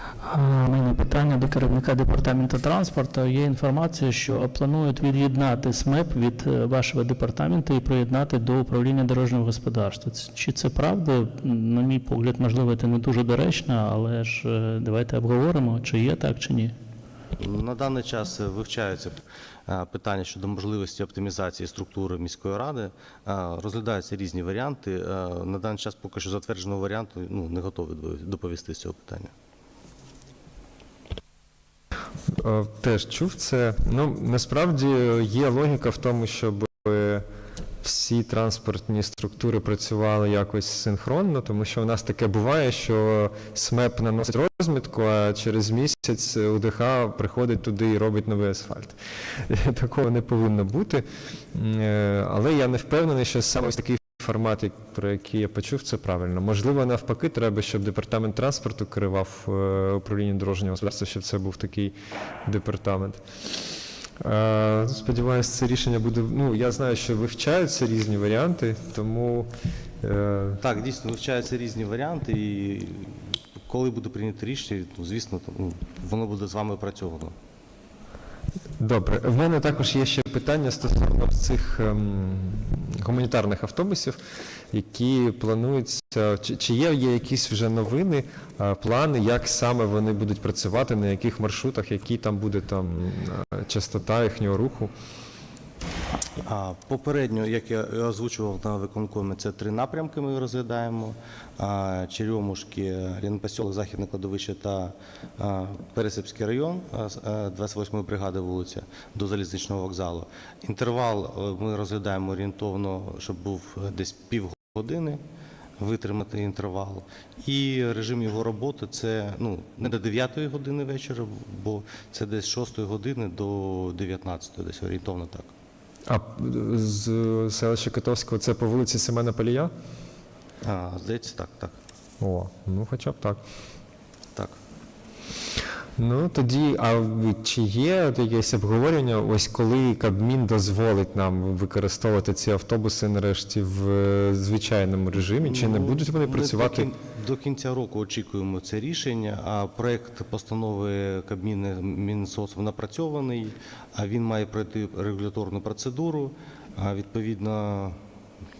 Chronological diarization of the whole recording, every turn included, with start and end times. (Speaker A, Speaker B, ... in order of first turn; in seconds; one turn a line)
Speaker A: 0.2-16.7
Speaker B: 17.4-29.3
Speaker C: 32.3-37.2
Speaker C: 37.8-61.9
Speaker C: 62.4-63.2
Speaker C: 64.2-70.6
Speaker B: 70.6-77.3
Speaker C: 78.8-84.2
Speaker C: 84.7-94.9
Speaker B: 96.4-115.2
Speaker B: 115.8-125.5
Speaker C: 126.1-129.7
Speaker B: 130.6-131.8
Speaker C: 132.2-133.4
Speaker C: 136.0-146.9
Speaker B: 145.4-158.0